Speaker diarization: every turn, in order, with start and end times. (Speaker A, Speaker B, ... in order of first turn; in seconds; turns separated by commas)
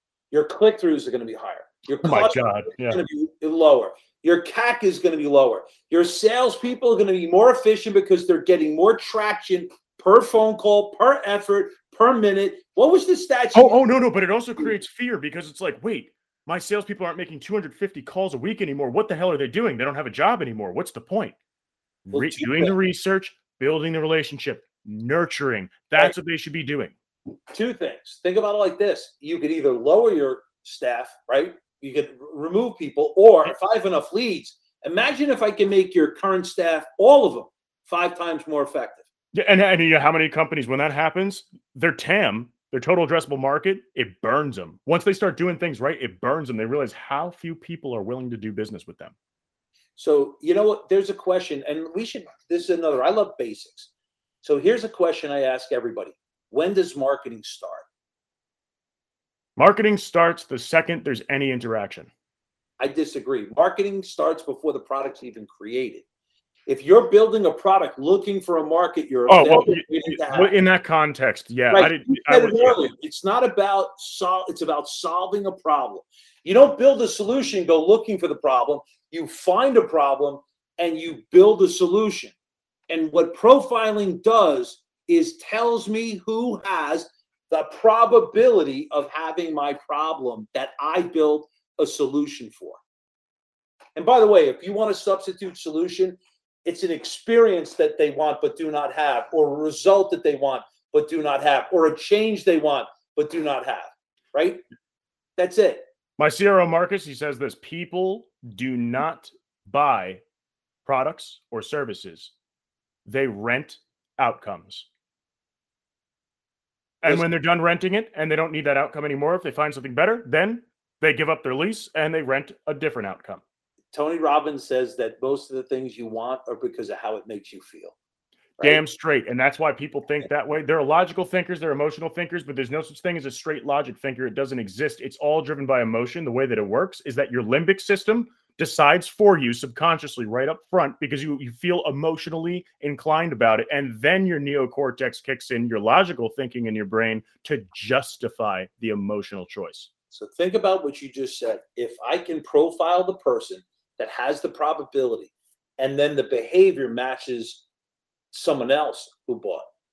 Speaker A: 0.3-13.8, Speaker B: 2.0-3.0, Speaker B: 13.5-21.4, Speaker B: 22.1-26.9, Speaker A: 22.1-22.7, Speaker A: 27.5-39.1, Speaker B: 39.3-49.1, Speaker A: 50.0-53.9, Speaker A: 54.4-57.9, Speaker B: 59.6-62.1, Speaker A: 62.8-66.0, Speaker A: 66.7-70.5, Speaker B: 69.3-72.8, Speaker A: 71.7-82.3, Speaker A: 82.9-92.8, Speaker A: 94.0-104.6, Speaker A: 105.4-105.8, Speaker B: 106.2-110.2, Speaker B: 110.8-112.3, Speaker B: 113.1-114.9, Speaker B: 117.0-123.4, Speaker A: 123.9-127.9, Speaker B: 128.6-149.9, Speaker A: 150.1-157.6, Speaker A: 158.3-159.6